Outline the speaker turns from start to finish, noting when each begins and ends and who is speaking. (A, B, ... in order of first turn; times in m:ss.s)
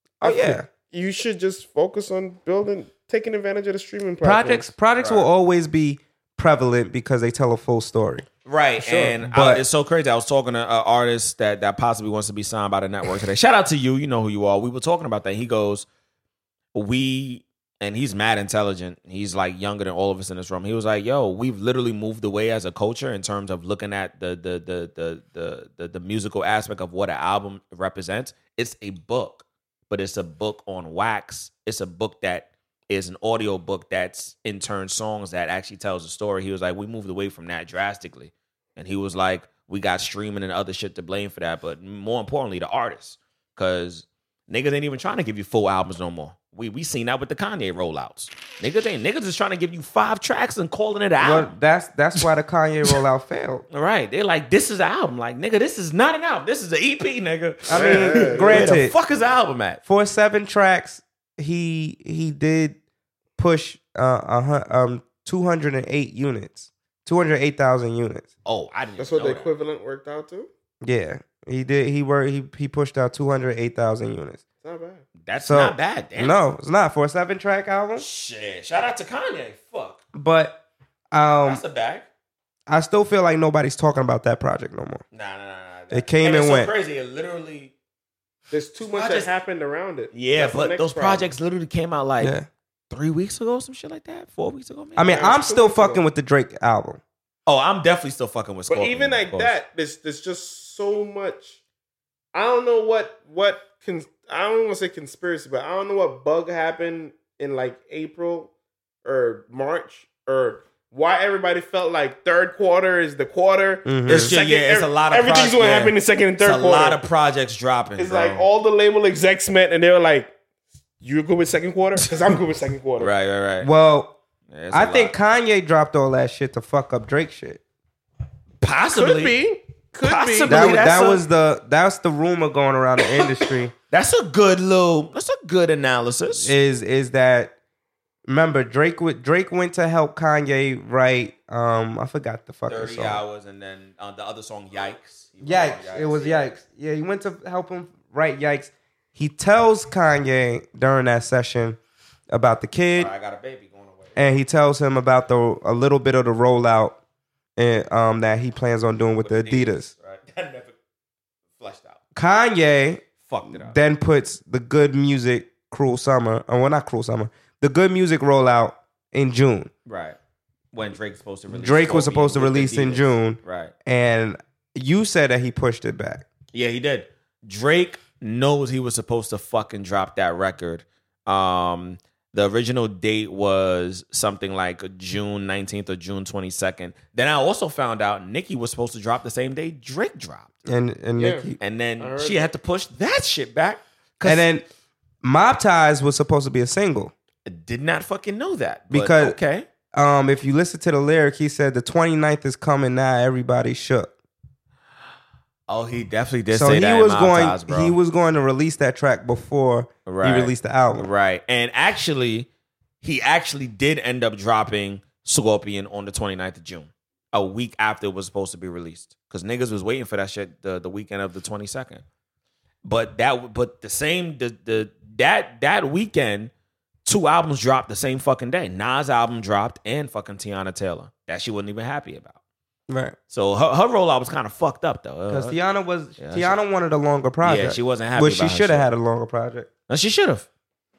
0:00.2-0:04.7 A
0:00.2-0:00.6 B
0:04.2-0:08.3 B
0:05.0-0:05.3 C
0:08.5-0:15.9 C
0:08.8-0:09.2 A
0:09.2-0:09.6 B
0:16.7-0:51.5 C
0:51.2-0:53.6 B
0:53.7-0:59.8 C
0:57.7-0:59.0 B
0:57.7-0:58.8 A
0:59.8-1:02.8 B
1:03.4-1:08.3 B
1:08.4-1:09.5 C
1:09.0-1:10.5 A
1:10.8-1:14.4 B
1:14.6-1:15.0 A
1:15.2-1:16.4 C
1:15.4-1:18.0 B
1:18.0-1:20.0 C
1:20.1-1:20.6 B
1:21.1-1:21.6 B
1:21.4-1:22.1 C
1:22.7-1:25.0 B
1:25.1-1:27.7 C
1:25.9-1:26.7 B
1:28.5-1:31.3 A
1:28.9-1:29.3 C
1:30.1-1:32.4 C
1:32.2-1:32.5 B
1:32.9-1:35.1 C
1:35.0-1:37.0 B
1:35.1-1:36.0 A
1:37.5-1:39.6 C
1:38.7-1:41.6 A
1:42.3-1:48.5 A
1:49.0-1:57.0 A
1:53.9-1:54.3 B
1:54.1-1:58.4 C
1:58.0-2:00.3 A
2:01.0-2:03.1 A
2:03.0-2:03.7 C
2:03.6-2:04.2 B
2:04.5-2:05.1 C
2:04.7-2:07.6 B
2:08.6-2:09.4 C
2:08.9-2:11.0 A
2:10.0-2:11.2 C
2:10.5-2:13.7 B
2:13.9-2:16.5 C
2:16.4-2:17.5 B
2:18.3-2:23.2 B
2:22.7-2:26.5 C
2:25.4-2:31.8 B
2:32.3-2:33.1 B
2:33.0-2:34.2 C
2:34.2-2:37.0 B
2:37.6-2:39.9 B
2:39.2-2:40.8 C
2:41.6-2:42.0 C
2:42.1-2:49.7 B
2:43.2-2:43.8 C
2:49.9-2:50.2 C
2:50.7-2:53.7 C
2:51.5-2:56.2 B
2:56.5-3:10.5 C
3:10.6-3:11.6 B
3:11.2-3:12.5 A
3:11.6-3:14.5 C
3:14.2-3:14.6 B
3:15.2-3:17.1 B
3:17.5-3:19.7 C
3:18.9-3:19.4 B
3:19.9-3:24.1 B
3:25.7-3:28.0 C
3:26.5-3:31.1 B
3:30.1-3:32.5 C
3:33.0-3:42.0 C
3:42.8-3:46.5 C
3:47.0-3:52.4 C
3:52.9-3:53.2 B
3:53.3-3:55.6 C
3:55.3-3:59.7 B
3:56.2-3:56.6 C
3:57.4-3:58.9 C
3:59.9-4:00.5 C